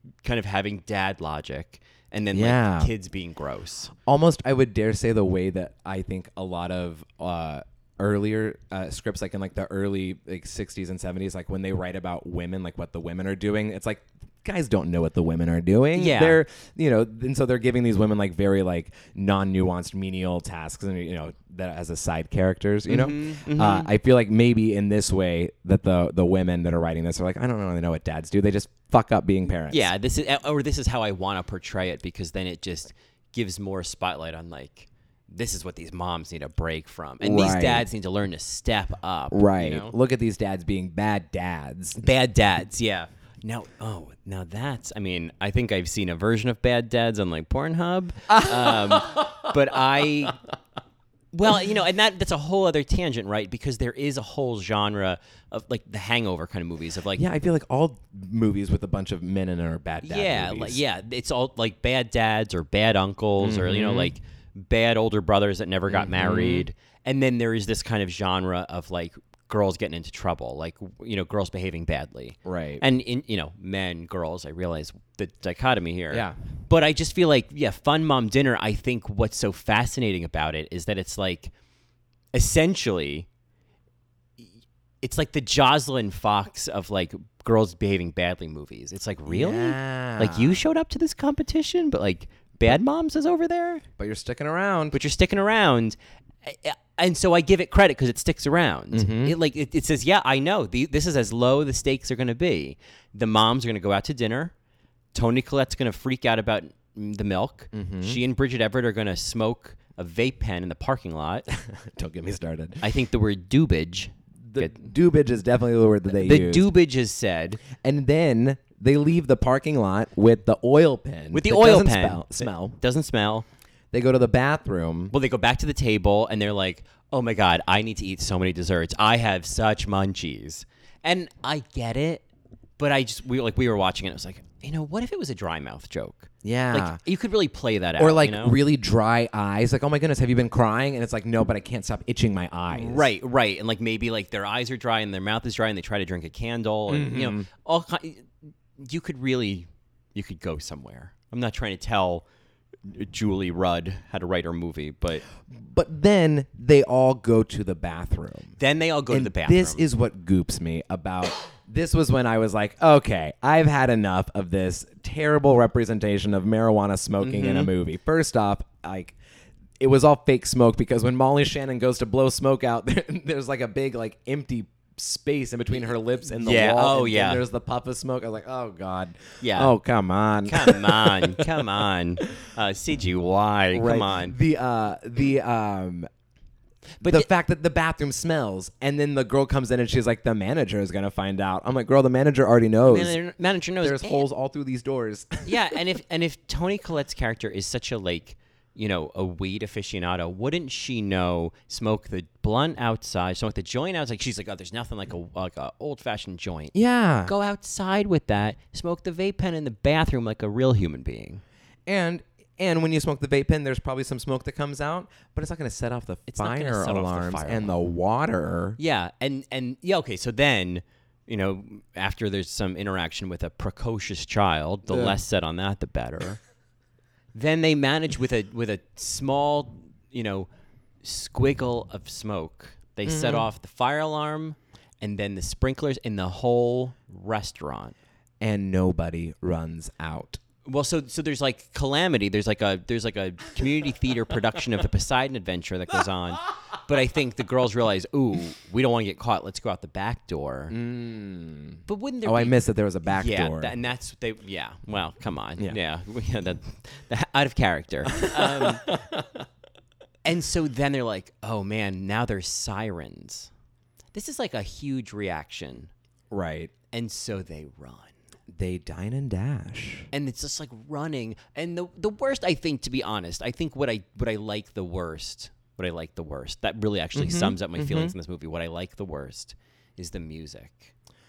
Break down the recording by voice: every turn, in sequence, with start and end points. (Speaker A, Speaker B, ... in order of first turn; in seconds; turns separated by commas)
Speaker A: 0.2-3.9, Speaker B: 2.3-2.9, Speaker B: 4.0-29.9, Speaker A: 15.9-16.4, Speaker A: 22.9-23.9, Speaker A: 29.7-39.9, Speaker B: 37.2-37.9, Speaker B: 39.3-42.0, Speaker A: 42.0-50.4, Speaker B: 48.3-49.5, Speaker A: 51.3-57.2, Speaker B: 57.1-60.8, Speaker A: 60.0-81.5, Speaker B: 63.4-64.1, Speaker B: 65.9-66.7, Speaker B: 72.4-72.8, Speaker B: 76.1-76.4, Speaker A: 82.3-83.3, Speaker A: 85.0-93.8, Speaker B: 89.2-90.6, Speaker B: 94.0-95.0, Speaker A: 94.9-104.5, Speaker B: 98.9-99.4, Speaker A: 105.1-111.5, Speaker B: 107.7-108.2, Speaker B: 111.5-112.9, Speaker A: 112.8-114.8, Speaker B: 114.4-116.7, Speaker A: 116.1-117.6, Speaker B: 117.7-122.8, Speaker A: 121.3-123.5, Speaker B: 123.9-125.1, Speaker A: 125.1-132.2, Speaker A: 132.8-138.6, Speaker B: 136.4-137.0, Speaker B: 138.0-143.1, Speaker A: 142.7-152.2, Speaker B: 146.9-147.5, Speaker A: 152.8-155.2, Speaker B: 155.4-169.2, Speaker A: 158.6-159.9, Speaker A: 167.2-167.7, Speaker B: 169.8-181.6, Speaker A: 175.7-177.4, Speaker A: 179.4-179.7, Speaker A: 180.4-184.3, Speaker B: 183.7-186.1, Speaker A: 187.0-187.3, Speaker B: 187.0-193.2, Speaker A: 192.8-194.2, Speaker B: 193.8-195.8, Speaker A: 195.4-211.4, Speaker B: 206.7-207.3, Speaker B: 211.8-218.8, Speaker A: 216.3-217.7, Speaker A: 218.8-226.4, Speaker B: 224.9-225.2, Speaker A: 227.3-230.5, Speaker A: 231.0-237.9, Speaker B: 233.1-233.5, Speaker B: 238.4-240.4, Speaker A: 240.6-250.7, Speaker B: 250.7-253.8, Speaker A: 251.9-258.9, Speaker B: 258.2-259.4, Speaker A: 260.2-263.5, Speaker A: 264.1-265.9, Speaker B: 266.3-266.7, Speaker A: 266.9-268.1, Speaker B: 268.5-270.1, Speaker A: 270.1-280.9, Speaker B: 277.1-278.1